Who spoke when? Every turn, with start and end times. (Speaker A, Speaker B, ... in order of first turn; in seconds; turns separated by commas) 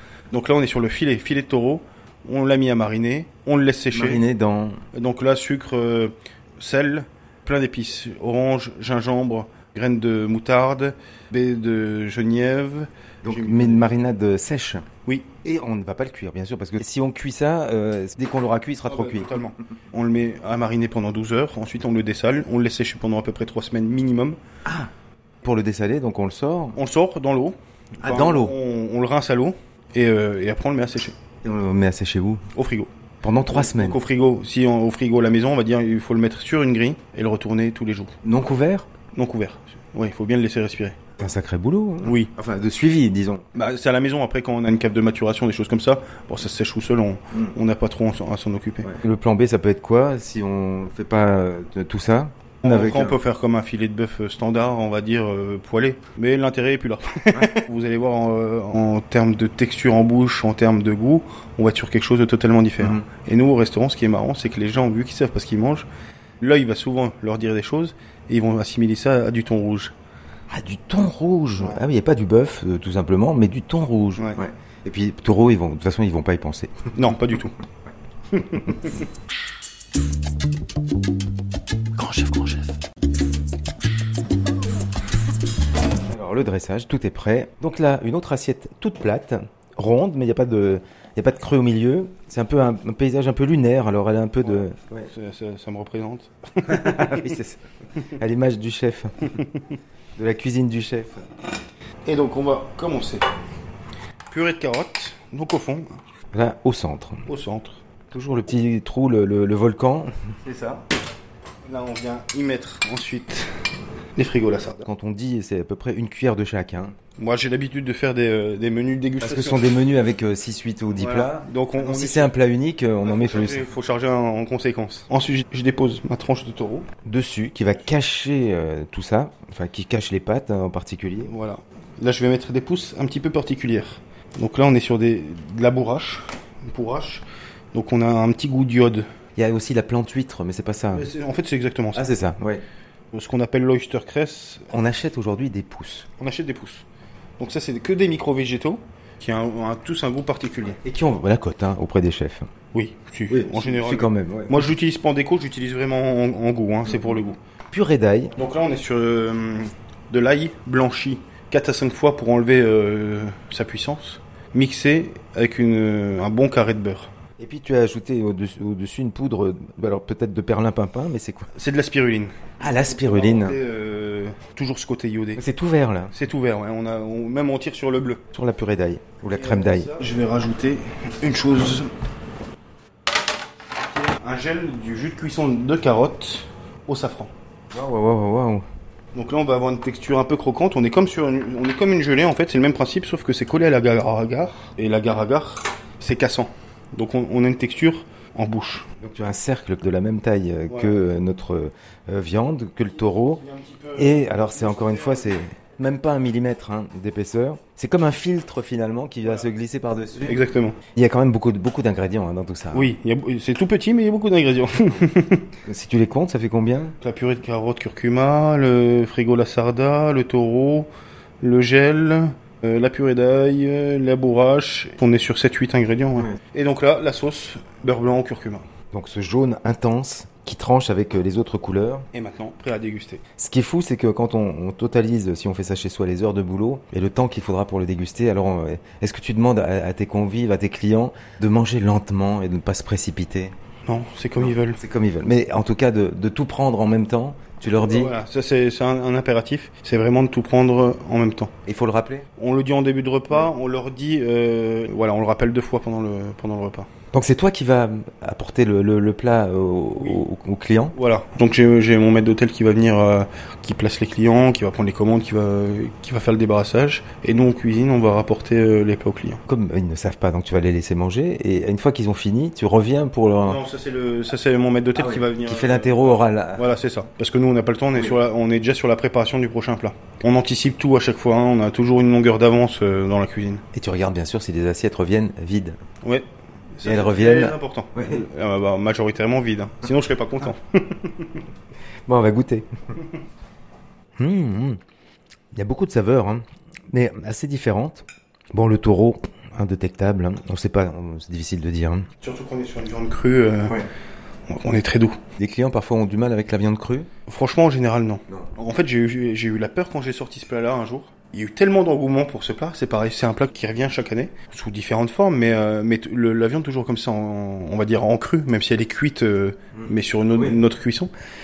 Speaker A: 0.3-4.2, Speaker B: 3.9-4.8, Speaker A: 4.9-13.9, Speaker B: 13.2-14.9, Speaker A: 15.1-15.3, Speaker B: 15.4-19.4, Speaker A: 18.9-24.4, Speaker B: 24.6-24.9, Speaker B: 25.4-26.8, Speaker A: 26.8-31.1, Speaker B: 28.0-28.5, Speaker B: 31.4-32.4, Speaker A: 32.5-32.9, Speaker B: 33.2-34.0, Speaker A: 33.5-38.1, Speaker B: 38.2-38.9, Speaker A: 39.1-41.0, Speaker B: 41.2-43.4, Speaker A: 42.0-42.3, Speaker A: 43.5-48.9, Speaker B: 48.8-53.2, Speaker A: 52.6-65.9, Speaker B: 62.8-63.0, Speaker A: 66.4-69.9, Speaker B: 70.5-76.9, Speaker A: 71.6-71.8, Speaker A: 77.0-77.5, Speaker A: 78.3-79.0, Speaker A: 82.0-82.7, Speaker B: 86.1-95.1, Speaker A: 94.4-97.4, Speaker B: 96.7-97.6, Speaker B: 98.2-99.4, Speaker B: 100.2-101.3, Speaker A: 102.0-103.3, Speaker A: 104.3-106.0, Speaker B: 106.3-107.2, Speaker A: 107.3-107.8, Speaker B: 108.1-110.1, Speaker A: 110.4-110.8, Speaker A: 111.7-113.6, Speaker A: 114.2-114.9, Speaker B: 114.8-117.0, Speaker A: 117.2-119.7, Speaker B: 119.2-123.7, Speaker A: 121.0-122.3, Speaker A: 123.0-126.9, Speaker B: 127.0-131.3, Speaker A: 131.2-139.1, Speaker B: 139.4-141.1, Speaker A: 140.9-142.1, Speaker B: 141.9-142.6, Speaker A: 143.1-144.7, Speaker B: 144.7-146.1, Speaker A: 146.2-146.8, Speaker A: 147.4-150.8, Speaker B: 150.8-152.5, Speaker A: 152.7-157.4, Speaker B: 153.3-154.6, Speaker B: 157.7-158.3, Speaker A: 158.3-167.1, Speaker B: 167.4-171.5, Speaker A: 171.5-175.4, Speaker B: 172.6-173.6, Speaker B: 175.4-176.1, Speaker A: 176.1-178.2, Speaker B: 178.3-180.0, Speaker A: 179.3-181.9, Speaker A: 183.9-187.3, Speaker B: 187.7-188.7, Speaker A: 189.1-198.9, Speaker B: 199.0-203.4, Speaker A: 200.7-200.9, Speaker A: 203.0-205.3, Speaker B: 204.0-212.9, Speaker A: 210.2-210.8, Speaker A: 212.7-215.5, Speaker B: 215.7-217.0, Speaker A: 217.0-220.9, Speaker A: 221.4-228.7, Speaker B: 228.9-232.1, Speaker A: 232.1-233.2, Speaker B: 233.4-243.5, Speaker A: 243.9-244.8, Speaker B: 244.4-248.2, Speaker A: 247.6-251.5, Speaker B: 251.7-252.3, Speaker A: 252.4-256.9, Speaker B: 257.1-260.9, Speaker A: 260.9-269.4, Speaker B: 269.5-273.6, Speaker A: 273.4-283.6, Speaker B: 275.0-276.7, Speaker B: 283.7-285.8, Speaker A: 286.0-291.4, Speaker B: 286.8-288.2, Speaker B: 292.1-292.7, Speaker B: 294.2-294.8, Speaker B: 295.5-302.1, Speaker A: 302.2-303.8, Speaker A: 304.5-305.2, Speaker B: 305.4-307.1, Speaker A: 307.3-321.1